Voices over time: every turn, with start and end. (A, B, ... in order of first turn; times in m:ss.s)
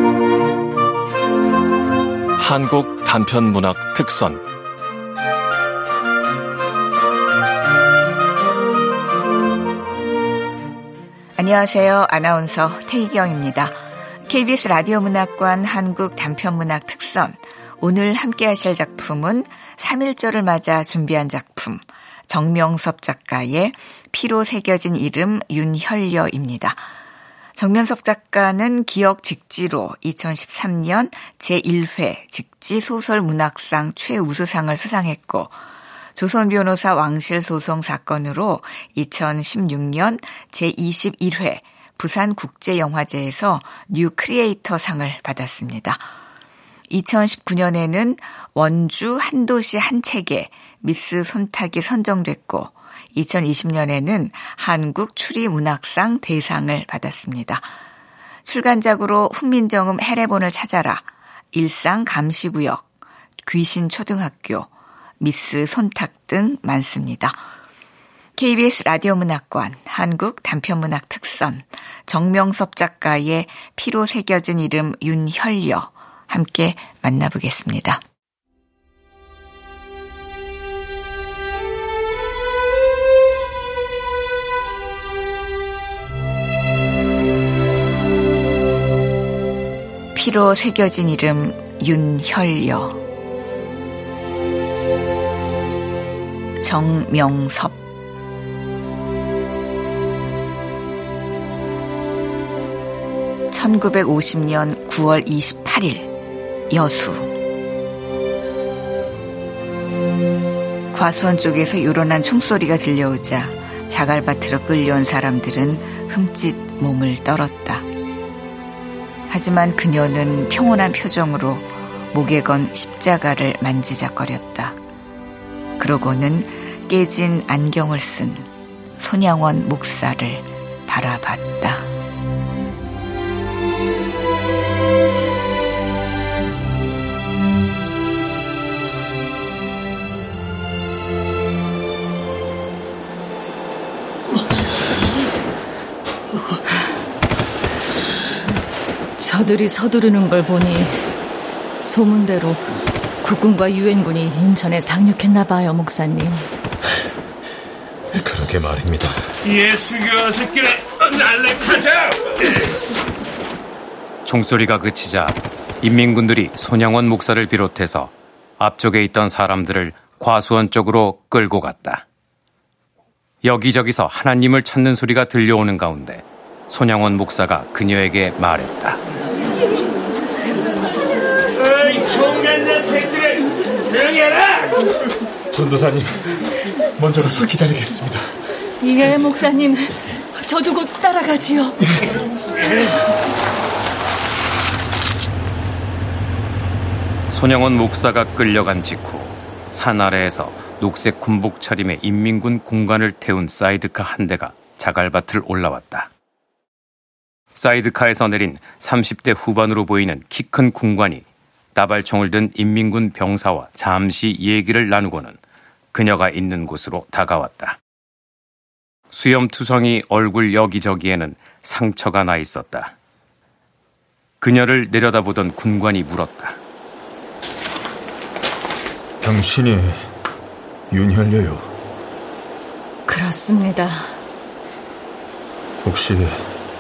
0:02.4-0:04.4 A
0:11.4-0:26.9 B
0:27.6-0:35.6 B
0:36.2-0:46.1 B
0:46.9-0:57.7 B
0:58.4-1:02.9 B
1:03.4-1:07.4 B
1:08.4-1:18.0 B
1:30.2-1:33.0 B
1:36.6-1:37.8 B
1:43.5-1:46.1 B
1:46.7-1:47.3 B
1:50.9-1:57.9 B
1:59.3-2:04.8 B
2:05.8-2:11.9 B
2:29.2-2:31.1 C
2:31.9-2:32.7 C
2:33.2-2:36.5 C
2:38.1-2:39.2 D
2:39.5-2:42.0 E
2:44.2-2:52.0 F
2:53.4-2:59.0 F
3:01.7-3:04.6 E
3:05.5-3:06.3 D
3:07.0-3:08.3 D
3:08.8-3:11.8 C
3:17.3-3:26.1 F
3:27.6-3:35.4 F
3:35.9-3:37.8 F
3:39.1-3:42.9 F
3:44.4-3:46.6 F
3:49.2-3:50.0 D
3:50.9-3:51.7 D
3:53.1-3:54.1 C
3:55.8-3:56.5 D